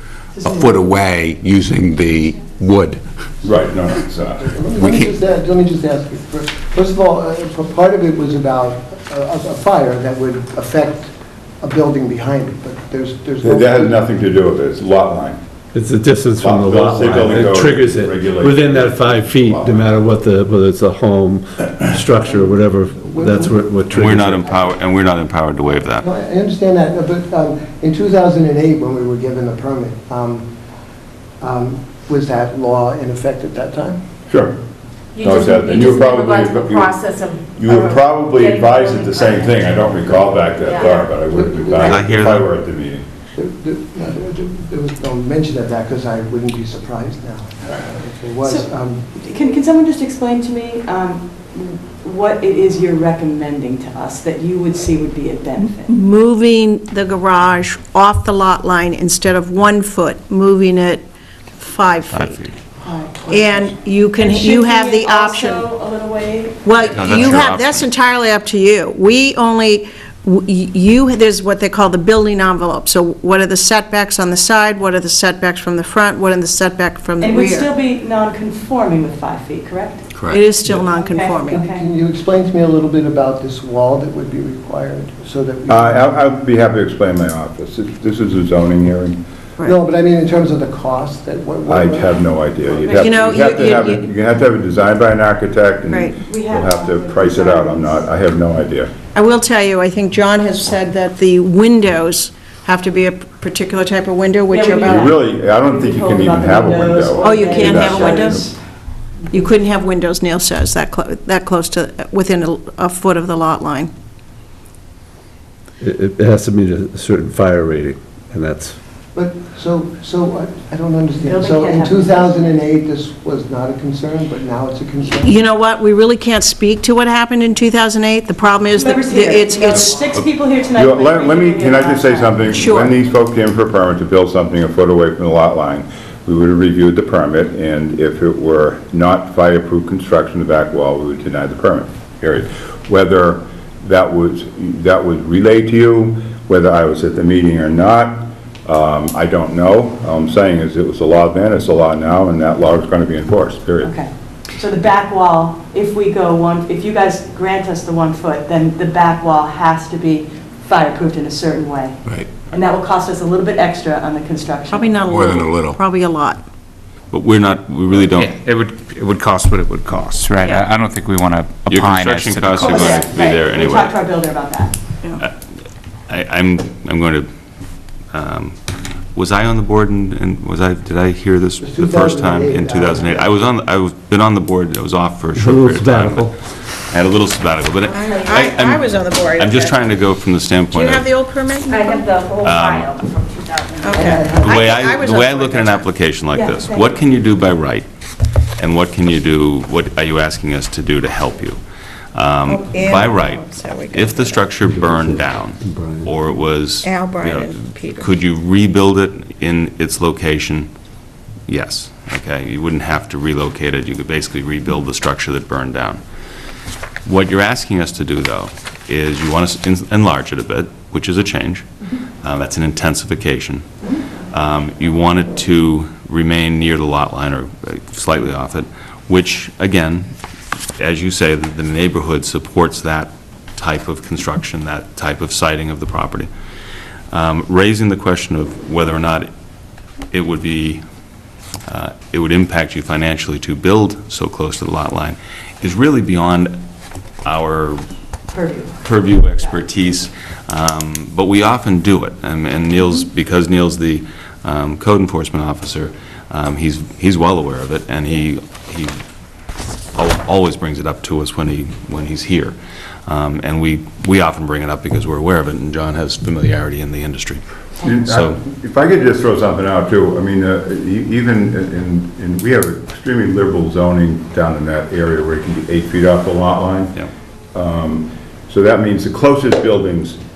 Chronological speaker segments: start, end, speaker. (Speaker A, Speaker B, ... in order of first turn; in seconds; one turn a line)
Speaker A: 0.3-1.0
Speaker B: 0.4-3.0
Speaker C: 3.4-4.5
Speaker D: 4.4-14.0
Speaker B: 4.7-5.1
Speaker C: 13.4-15.4
Speaker E: 15.7-24.4
Speaker C: 16.4-19.9
Speaker D: 22.1-23.7
Speaker F: 23.9-26.0
Speaker D: 26.0-30.5
Speaker D: 31.4-34.0
Speaker C: 34.3-34.5
Speaker G: 35.1-39.9
Speaker C: 35.2-37.0
Speaker C: 37.6-43.0
Speaker D: 40.3-42.4
Speaker G: 40.6-41.1
Speaker F: 41.8-42.5
Speaker D: 43.3-49.1
Speaker A: 48.4-55.9
Speaker H: 55.9-61.0
Speaker H: 61.6-62.4
Speaker F: 62.1-62.5
Speaker A: 62.8-67.0
Speaker H: 63.3-65.6
Speaker H: 66.6-77.7
Speaker F: 66.8-67.9
Speaker A: 77.2-81.9
Speaker B: 80.2-80.4
Speaker H: 80.3-81.6
Speaker D: 81.5-86.1
Speaker C: 85.7-89.2
Speaker D: 89.6-93.0
Speaker C: 91.7-98.9
Speaker A: 92.8-93.2
Speaker H: 93.0-94.1
Speaker H: 95.9-96.1
Speaker A: 96.1-98.1
Speaker H: 99.1-105.1
Speaker A: 104.5-108.6
Speaker C: 104.8-108.5
Speaker H: 107.2-108.5
Speaker H: 109.3-113.9
Speaker E: 115.8-118.8
Speaker D: 119.1-125.5
Speaker A: 121.2-122.5
Speaker H: 125.2-129.9
Speaker A: 128.7-132.6
Speaker C: 130.1-153.9
Speaker H: 132.5-133.0
Speaker A: 153.8-162.0
Speaker A: 162.5-165.1
Speaker H: 164.7-166.4
Speaker B: 165.1-165.8
Speaker F: 167.1-168.3
Speaker I: 168.2-172.8
Speaker F: 171.7-173.9
Speaker D: 172.6-173.0
Speaker A: 172.7-174.7
Speaker F: 176.1-177.3
Speaker F: 178.1-178.6
Speaker F: 179.1-186.3
Speaker D: 181.6-183.5
Speaker E: 185.3-186.3
Speaker F: 186.9-191.1
Speaker H: 187.9-189.8
Speaker H: 190.7-192.2
Speaker G: 191.7-194.0
Speaker F: 192.4-193.0
Speaker H: 193.8-195.9
Speaker D: 193.9-194.6
Speaker F: 194.4-197.8
Speaker A: 196.3-197.1
Speaker F: 198.6-201.6
Speaker F: 202.1-210.7
Speaker H: 202.5-204.6
Speaker E: 204.7-206.1
Speaker H: 206.8-208.1
Speaker F: 211.5-216.0
Speaker F: 217.0-221.7
Speaker F: 222.2-223.7
Speaker F: 224.3-230.1
Speaker F: 230.8-236.3
Speaker F: 237.1-239.3
Speaker F: 240.1-240.8
Speaker F: 241.7-246.6
Speaker F: 247.2-247.8
Speaker A: 248.3-248.8
Speaker F: 248.8-259.0
Speaker F: 259.9-262.6
Speaker F: 263.1-267.4
Speaker C: 267.8-276.9
Speaker F: 268.0-268.4
Speaker C: 277.5-280.2